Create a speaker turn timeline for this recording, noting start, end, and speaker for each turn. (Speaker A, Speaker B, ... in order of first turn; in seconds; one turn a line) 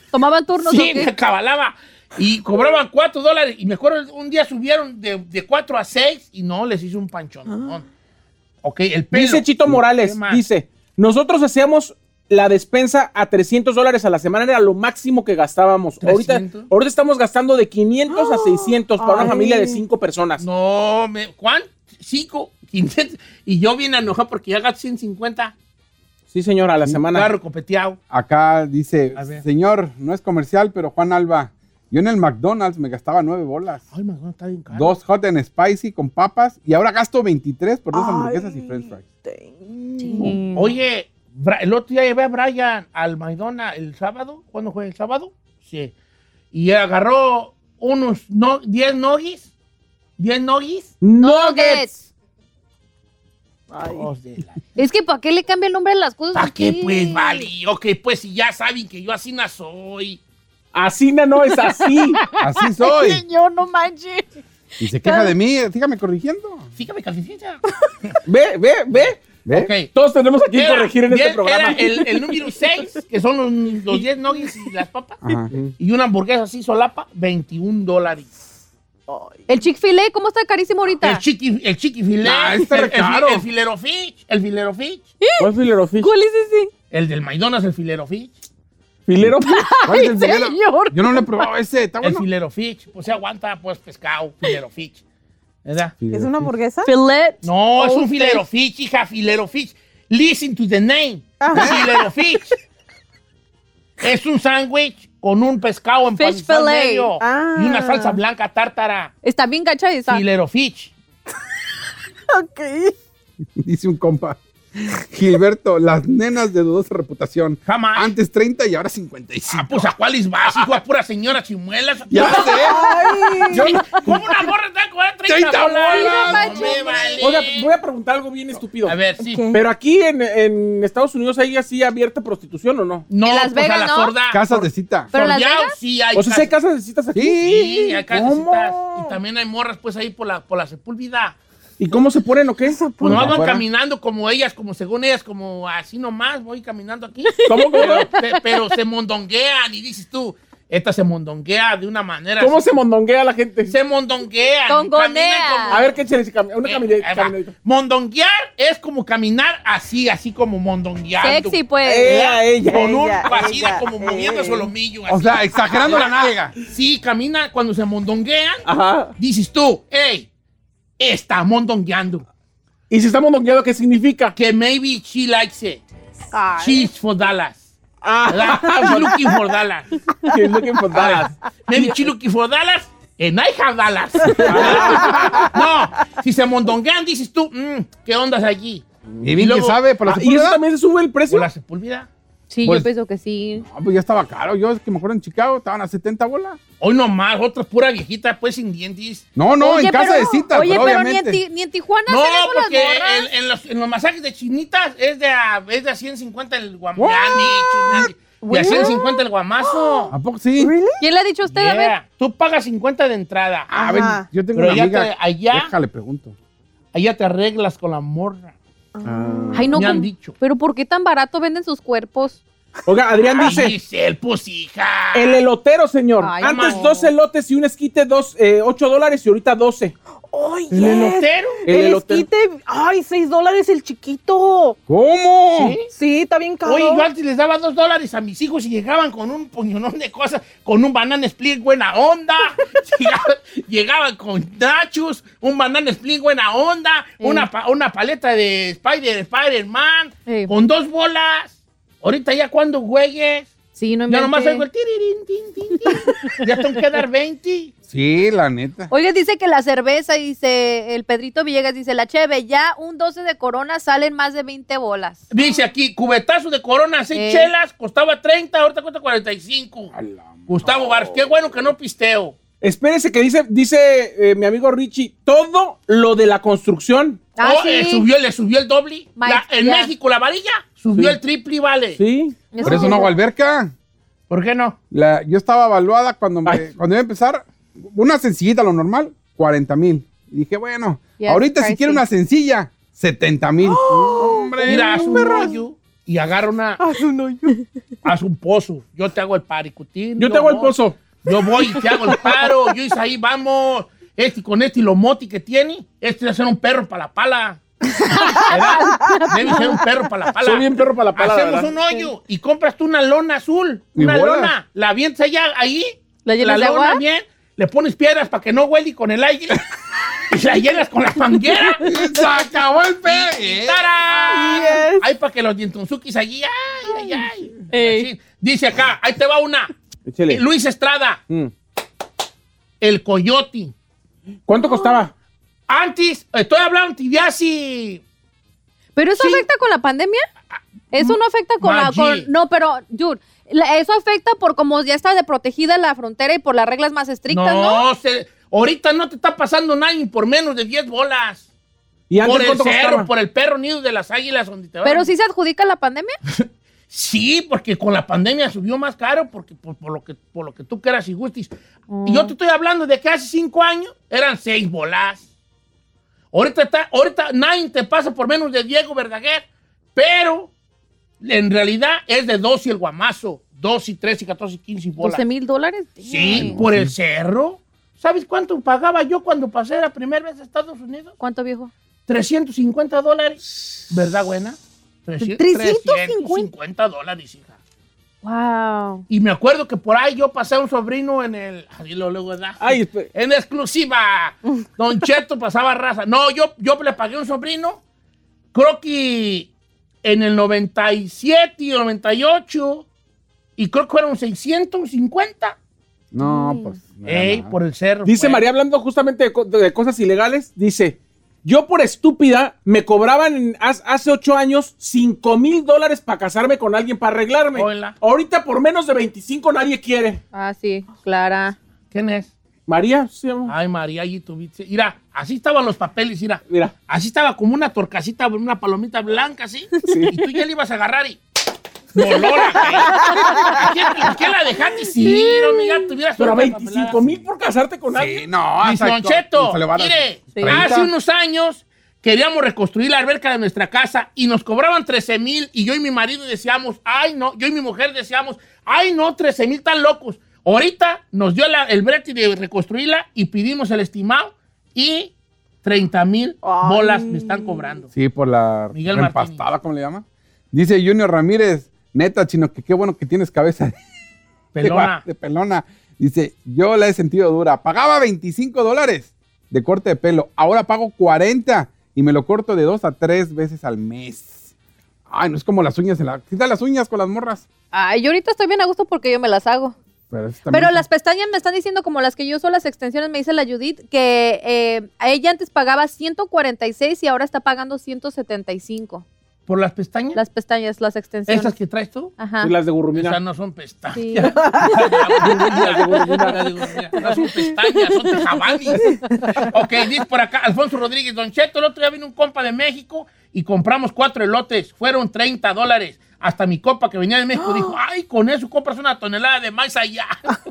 Speaker A: 0.1-1.1
Speaker B: 0.6-7.9
Speaker B: 8.6-10.4
Speaker C: 9.1-20.4
Speaker B: 16.0-16.7
Speaker D: 18.1-19.8
Speaker B: 20.4-25.5
Speaker C: 26.3-27.3
Speaker B: 27.0-28.0
Speaker E: 28.1-33.8
Speaker B: 29.1-29.4
Speaker B: 33.9-35.0
Speaker E: 34.7-39.0
Speaker D: 37.9-40.4
Speaker A: 40.0-40.7
Speaker B: 40.2-45.9
Speaker B: 46.5-49.5
Speaker B: 50.2-50.9
Speaker C: 51.0-51.9
Speaker A: 51.2-52.0
Speaker D: 53.7-54.1
Speaker B: 53.9-54.6
Speaker A: 54.8-57.5
Speaker B: 56.3-60.2
Speaker C: 60.7-62.2
Speaker A: 62.3-64.2
Speaker E: 62.4-63.2
Speaker E: 64.8-66.7
Speaker A: 65.0-65.3
Speaker B: 66.8-68.2
Speaker C: 68.2-69.2
Speaker B: 68.9-69.9
Speaker E: 69.4-69.7
Speaker C: 69.9-72.0
Speaker B: 70.5-75.2
Speaker E: 75.2-75.5
Speaker B: 75.8-78.3
Speaker D: 79.1-79.5
Speaker A: 79.5-81.2
Speaker B: 81.0-85.1
Speaker E: 82.2-83.5
Speaker A: 85.2-85.5
Speaker C: 85.4-86.1
Speaker A: 86.0-86.7
Speaker B: 86.9-88.3
Speaker C: 89.0-89.7
Speaker E: 89.2-92.2
Speaker A: 89.4-91.4
Speaker B: 92.0-95.0
Speaker B: 95.6-95.9
Speaker E: 96.0-96.5
Speaker D: 96.1-96.9
Speaker A: 96.8-98.4
Speaker B: 97.4-102.5
Speaker D: 101.4-102.1
Speaker B: 104.0-109.1
Speaker A: 106.2-107.1
Speaker D: 107.2-108.2
Speaker A: 109.2-110.2
Speaker B: 110.1-110.9
Speaker D: 112.3-112.9
Speaker E: 113.6-119.9
Speaker B: 117.7-118.1
Speaker B: 119.5-122.8
Speaker E: 120.5-120.8
Speaker E: 122.1-122.8
Speaker C: 122.1-123.6
Speaker D: 122.3-123.8
Speaker E: 123.5-124.2
Speaker B: 123.5-127.7
Speaker E: 125.3-127.0
Speaker A: 125.9-127.3
Speaker C: 127.2-129.0
Speaker B: 128.8-129.4
Speaker D: 129.2-129.6
Speaker C: 129.5-133.1
Speaker B: 133.1-136.5
Speaker A: 133.2-134.1
Speaker E: 134.3-135.1
Speaker A: 135.1-135.8
Speaker C: 136.1-137.4
Speaker E: 137.1-138.9
Speaker B: 137.4-141.4
Speaker C: 141.8-143.3
Speaker D: 142.7-143.4
Speaker B: 143.0-152.8
Speaker E: 143.1-143.6
Speaker A: 147.3-148.3
Speaker C: 147.4-148.1
Speaker C: 152.4-153.7
Speaker B: 153.7-156.0
Speaker A: 154.7-155.8
Speaker C: 155.7-157.5
Speaker B: 156.6-168.6
Speaker A: 161.2-162.3
Speaker C: 161.8-163.1
Speaker D: 162.7-164.7
Speaker E: 165.1-166.5
Speaker C: 168.6-169.1
Speaker B: 169.2-170.3
Speaker B: 171.0-172.2
Speaker C: 172.9-174.3
Speaker B: 174.3-175.8
Speaker D: 176.3-176.8
Speaker B: 176.6-177.7
Speaker C: 178.0-179.3
Speaker B: 178.3-180.0
Speaker C: 180.2-181.9
Speaker B: 180.9-188.8
Speaker C: 184.4-185.2
Speaker E: 184.6-185.5
Speaker D: 185.1-185.5
Speaker E: 189.2-190.6
Speaker B: 189.4-189.8
Speaker C: 190.1-191.5
Speaker B: 191.3-192.1
Speaker A: 192.5-193.7
Speaker E: 193.6-196.6
Speaker B: 196.8-199.2
Speaker E: 199.3-201.4
Speaker A: 199.6-203.3
Speaker B: 202.1-210.1
Speaker D: 207.1-211.0
Speaker E: 210.1-210.7
Speaker A: 211.0-211.9
Speaker B: 211.5-213.8
Speaker E: 213.7-216.3
Speaker D: 213.8-214.3
Speaker B: 214.5-215.7
Speaker B: 216.9-218.5
Speaker D: 218.9-219.9
Speaker C: 219.1-219.6
Speaker A: 219.5-222.4
Speaker B: 219.7-220.3
Speaker C: 222.8-223.7
Speaker B: 223.4-225.4
Speaker C: 225.1-229.9
Speaker A: 226.2-227.1
Speaker B: 226.4-226.9
Speaker D: 230.3-234.8
Speaker B: 230.7-231.6
Speaker C: 231.7-232.3
Speaker E: 234.9-235.8
Speaker B: 235.5-235.9
Speaker D: 235.9-237.1
Speaker B: 236.6-253.5
Speaker A: 247.2-247.5
Speaker A: 250.3-250.5
Speaker A: 253.8-254.7
Speaker B: 254.1-257.7
Speaker A: 255.8-256.5
Speaker E: 257.9-258.9
Speaker A: 258.9-265.3
Speaker B: 265.3-269.9
Speaker A: 267.1-267.5
Speaker E: 269.9-271.0
Speaker B: 270.5-272.4
Speaker C: 272.6-277.2
Speaker A: 277.4-278.1
Speaker B: 277.4-282.0
Speaker A: 279.2-279.9
Speaker C: 281.9-282.4
Speaker A: 282.5-283.1
Speaker E: 282.6-283.7
Speaker B: 284.3-284.8
Speaker E: 284.9-295.3
Speaker A: 291.2-292.0
Speaker D: 293.6-295.6
Speaker B: 294.6-296.8
Speaker D: 296.8-297.6
Speaker B: 298.0-307.6
Speaker C: 300.2-301.0
Speaker D: 301.5-302.3
Speaker A: 308.1-309.8
Speaker B: 308.4-319.6
Speaker C: 310.4-311.7
Speaker E: 313.9-314.5
Speaker A: 316.2-317.0
Speaker B: 320.3-322.0
Speaker E: 321.8-323.9
Speaker B: 323.0-329.7
Speaker D: 324.2-325.1
Speaker A: 327.7-328.1
Speaker C: 330.1-330.4
Speaker B: 330.3-331.2
Speaker B: 332.8-333.7
Speaker C: 334.5-335.1
Speaker D: 334.5-335.0
Speaker B: 335.7-338.0
Speaker A: 338.9-340.2
Speaker B: 339.1-339.5
Speaker A: 340.9-347.9
Speaker B: 340.9-342.3
Speaker B: 347.3-351.5
Speaker C: 352.1-353.1
Speaker B: 352.2-355.1
Speaker A: 354.8-356.1
Speaker B: 356.3-361.5
Speaker A: 361.9-362.3
Speaker B: 362.1-365.2
Speaker B: 366.3-370.5
Speaker B: 371.2-375.2
Speaker A: 375.0-376.6
Speaker B: 376.1-381.1
Speaker E: 376.2-376.9
Speaker A: 381.2-381.7
Speaker B: 382.1-387.6
Speaker A: 385.2-386.5
Speaker A: 388.2-389.0
Speaker B: 389.1-397.8
Speaker C: 392.6-393.1
Speaker B: 398.5-399.5
Speaker B: 400.0-402.9
Speaker B: 403.6-405.6
Speaker E: 406.1-407.5
Speaker A: 406.2-406.7
Speaker B: 407.0-408.4
Speaker C: 408.1-420.2
Speaker B: 417.5-418.0
Speaker A: 420.3-421.6
Speaker B: 421.9-422.3
Speaker C: 422.7-423.5
Speaker B: 423.4-431.2
Speaker C: 426.5-426.7
Speaker C: 429.8-430.1
Speaker B: 431.9-437.2
Speaker D: 432.9-434.1
Speaker D: 435.0-435.8
Speaker C: 436.2-438.2
Speaker E: 437.9-440.9
Speaker B: 438.6-457.9
Speaker A: 440.3-440.6
Speaker D: 456.4-457.8
Speaker E: 457.9-463.8
Speaker B: 458.7-459.4
Speaker B: 464.5-465.0
Speaker E: 464.6-474.5
Speaker E: 475.1-477.4
Speaker A: 477.7-479.7
Speaker E: 480.1-480.8
Speaker A: 480.5-489.0
Speaker B: 489.5-490.2
Speaker A: 490.1-491.5
Speaker B: 491.3-492.1
Speaker A: 492.2-492.5
Speaker C: 492.4-493.2
Speaker B: 492.9-510.4
Speaker A: 493.9-494.4
Speaker D: 494.4-495.2
Speaker C: 495.2-496.5
Speaker D: 498.8-499.5